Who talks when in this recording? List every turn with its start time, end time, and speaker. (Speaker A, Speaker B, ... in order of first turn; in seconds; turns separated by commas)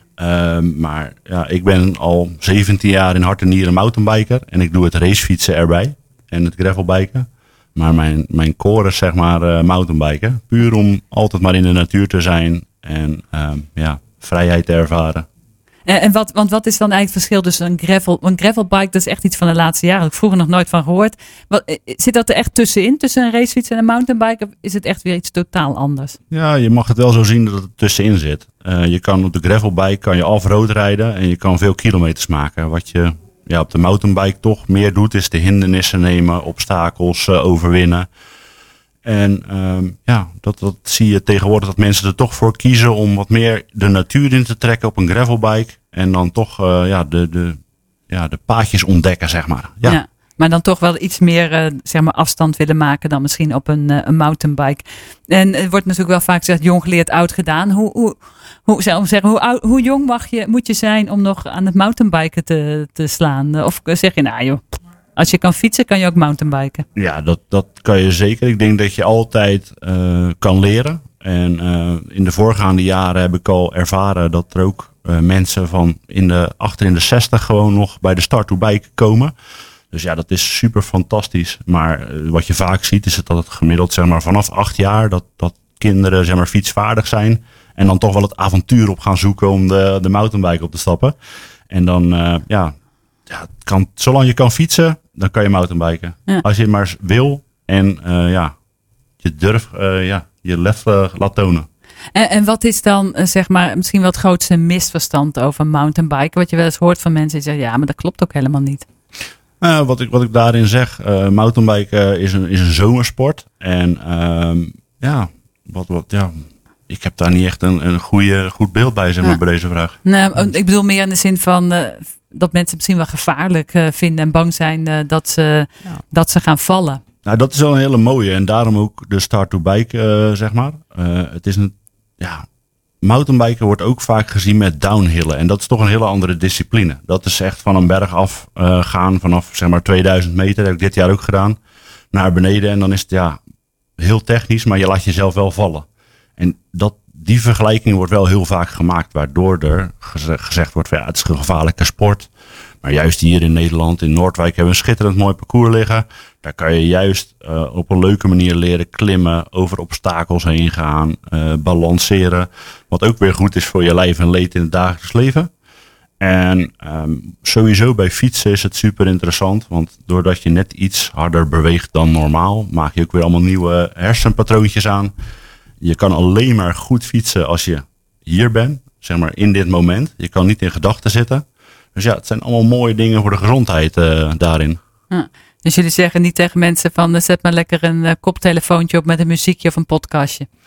Speaker A: 0.2-15.3, Speaker B: 15.8-26.1, Speaker A: 26.3-38.1, Speaker A: 39.0-47.6, Speaker A: 48.1-50.0, Speaker B: 49.8-64.6, Speaker B: 65.2-66.8, Speaker A: 67.0-79.3, Speaker A: 79.9-91.2, Speaker A: 91.7-92.7, Speaker A: 93.3-98.5, Speaker A: 99.2-101.7, Speaker B: 102.1-108.8, Speaker A: 109.6-120.0, Speaker B: 120.0-127.0, Speaker A: 127.2-132.4, Speaker A: 133.0-141.6, Speaker A: 142.1-143.4, Speaker A: 144.0-145.8, Speaker A: 146.4-152.3, Speaker A: 152.8-165.5, Speaker A: 166.2-175.1, Speaker A: 175.8-184.8, Speaker B: 185.1-190.5